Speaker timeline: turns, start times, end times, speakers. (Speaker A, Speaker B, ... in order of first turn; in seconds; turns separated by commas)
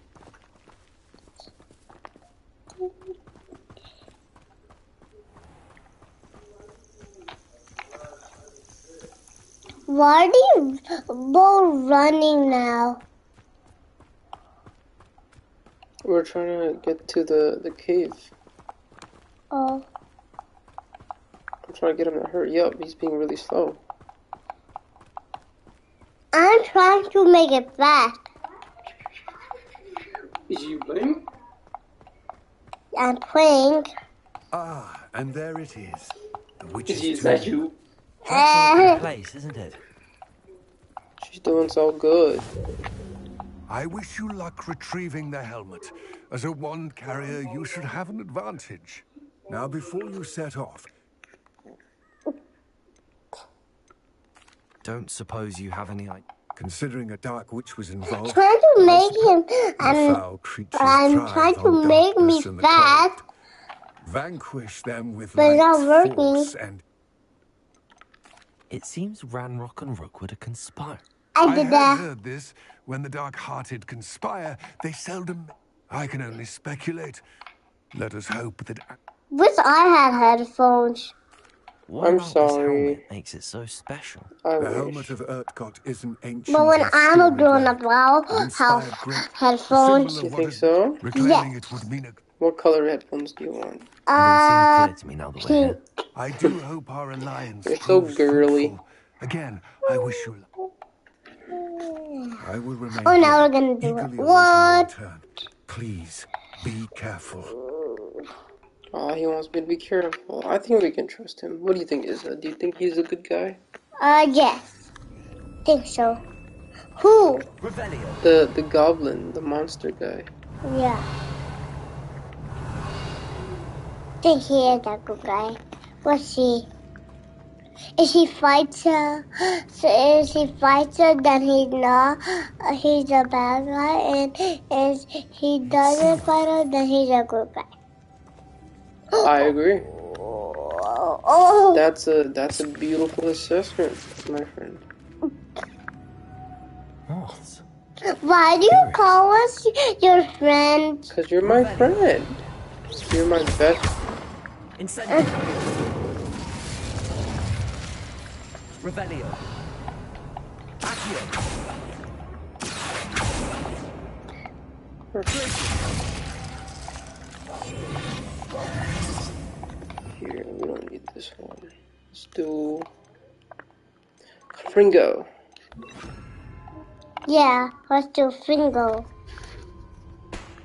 Speaker A: 9.9-13.0, Speaker B: 16.1-18.3, Speaker A: 19.5-19.9, Speaker B: 21.7-23.8, Speaker A: 26.3-28.2, Speaker B: 30.5-31.2, Speaker A: 32.9-33.9, Speaker C: 34.5-37.7, Speaker B: 36.9-37.8, Speaker A: 38.3-39.0, Speaker D: 38.3-39.8, Speaker B: 41.2-42.5, Speaker C: 43.7-50.9, Speaker D: 54.8-56.2, Speaker C: 56.6-59.3, Speaker A: 58.1-60.2, Speaker C: 59.8-63.2, Speaker A: 60.8-63.2, Speaker C: 64.0-66.8, Speaker A: 65.4-66.5, Speaker D: 68.7-71.0, Speaker A: 71.4-72.0, Speaker C: 71.4-77.2, Speaker C: 77.9-79.0, Speaker A: 79.3-81.1, Speaker D: 81.9-84.3, Speaker B: 82.0-83.0, Speaker B: 84.4-85.1, Speaker C: 84.6-87.8, Speaker A: 86.5-90.2, Speaker C: 88.3-92.2, Speaker B: 90.2-91.0, Speaker A: 91.2-91.5, Speaker B: 92.4-93.9, Speaker A: 94.1-94.9, Speaker D: 94.2-95.8, Speaker A: 95.4-95.8, Speaker C: 96.2-100.5, Speaker B: 97.7-98.7, Speaker A: 101.5-102.4, Speaker C: 102.4-107.5, Speaker A: 103.0-104.9, Speaker B: 108.9-113.6, Speaker A: 114.0-114.7, Speaker A: 115.7-116.2, Speaker A: 117.0-117.5, Speaker D: 117.6-118.2, Speaker B: 118.2-120.3, Speaker A: 120.6-121.1, Speaker A: 124.2-126.7, Speaker A: 128.0-137.7, Speaker D: 135.7-136.2, Speaker A: 139.2-141.8, Speaker B: 139.2-139.9, Speaker B: 141.7-144.8, Speaker D: 147.1-147.7, Speaker A: 148.1-151.1, Speaker D: 148.7-149.2, Speaker B: 151.1-152.5, Speaker D: 151.4-152.0, Speaker B: 153.1-153.9, Speaker D: 154.8-155.6, Speaker D: 158.8-159.4, Speaker D: 160.8-161.4, Speaker D: 165.3-165.7, Speaker B: 170.2-172.9, Speaker B: 174.5-175.3, Speaker A: 177.3-179.1